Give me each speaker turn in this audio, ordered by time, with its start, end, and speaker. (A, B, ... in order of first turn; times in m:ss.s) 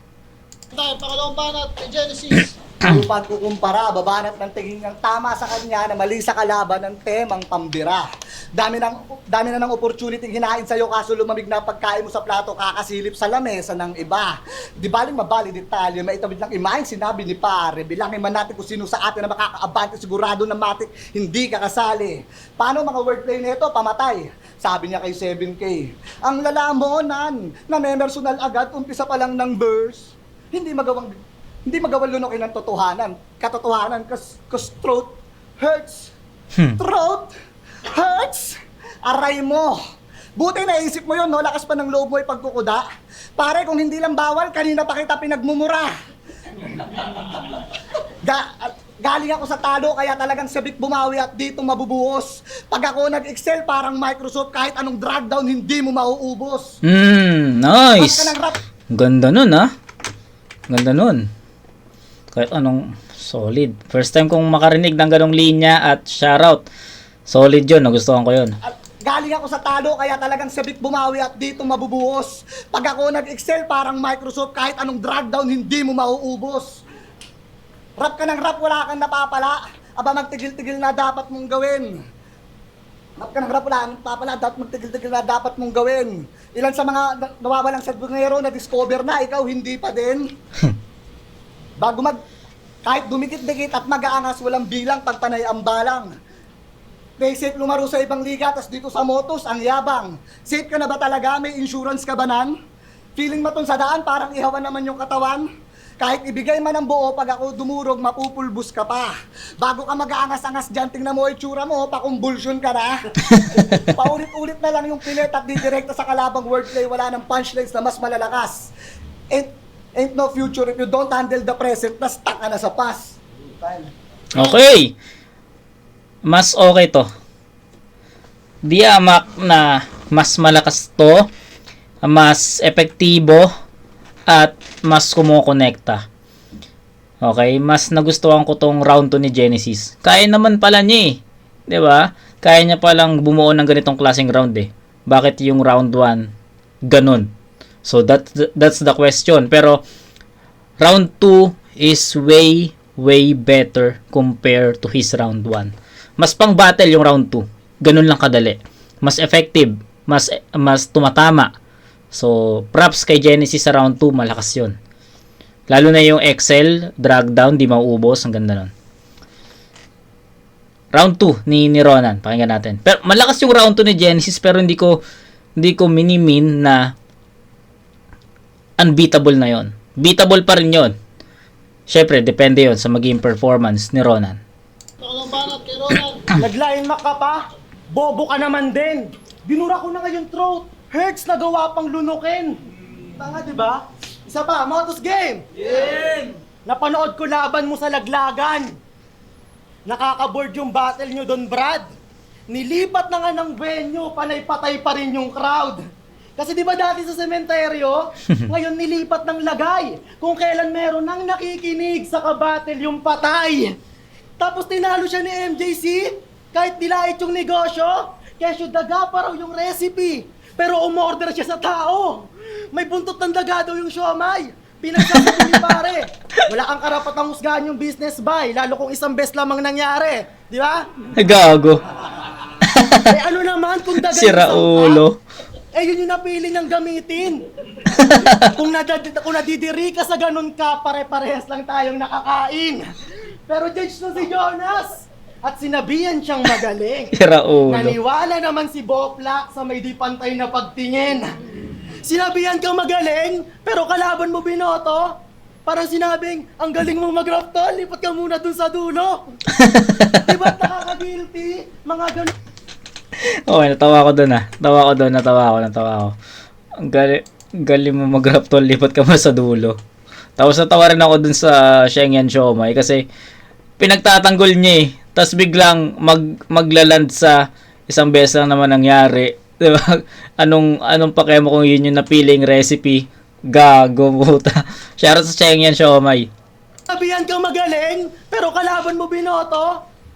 0:00.7-0:02.5 A
0:02.8-0:31.1 B
0:31.6-0:36.1 B
0:36.8-0:37.3 B
0:37.9-0:39.8 B
0:40.4-0:42.8 B
0:43.4-0:45.9 B
0:46.8-0:47.6 B
0:48.2-0:56.7 B
0:56.8-0:58.3 C
0:58.0-0:58.6 B
0:58.9-0:59.7 C
1:00.7-1:01.3 C
1:02.3-1:06.6 C
1:07.3-1:08.5 C
1:08.6-1:16.8 B
1:18.0-1:21.9 B
1:23.2-1:30.3 B
1:31.8-1:32.2 B
1:32.8-1:36.1 B
1:37.2-1:42.5 B
1:43.2-1:45.4 B
1:46.0-1:58.7 B
1:53.4-1:53.7 C
1:59.3-2:03.9 B
2:04.3-2:04.9 C
2:06.2-2:07.1 C
2:08.6-2:11.3 C
2:12.0-2:13.5 C
2:14.3-2:16.0 C
2:17.2-2:26.3 C
2:26.9-2:27.3 C
2:27.8-2:29.8 C
2:30.8-2:41.5 C
2:42.1-2:44.8 C
2:45.7-2:48.7 C
2:50.9-2:55.0 C
2:55.6-2:56.9 C
2:58.8-3:00.9 C
3:01.9-3:04.4 C
3:05.0-3:06.2 A
3:06.3-3:12.6 D
3:13.2-3:15.9 D
3:16.6-3:18.8 D
3:19.9-3:21.9 D
3:22.5-3:25.8 D
3:26.4-3:33.8 D
3:34.4-3:50.9 D
3:45.1-3:45.6 C
3:51.1-3:51.8 C
3:52.8-3:53.0 C
3:53.0-3:55.0 D
3:54.0-3:55.2 C
3:55.7-3:57.5 D
3:57.9-3:58.4 C
3:58.3-4:02.9 D
4:03.5-4:07.1 D
4:07.1-4:08.0 C
4:07.7-4:11.3 D
4:12.0-4:15.1 D
4:15.6-4:19.4 D
4:19.6-4:20.2 C
4:19.9-4:22.3 D
4:23.2-4:26.1 C
4:26.8-4:29.8 C
4:30.4-4:33.0 C
4:33.8-4:46.3 C
4:46.9-4:49.8 D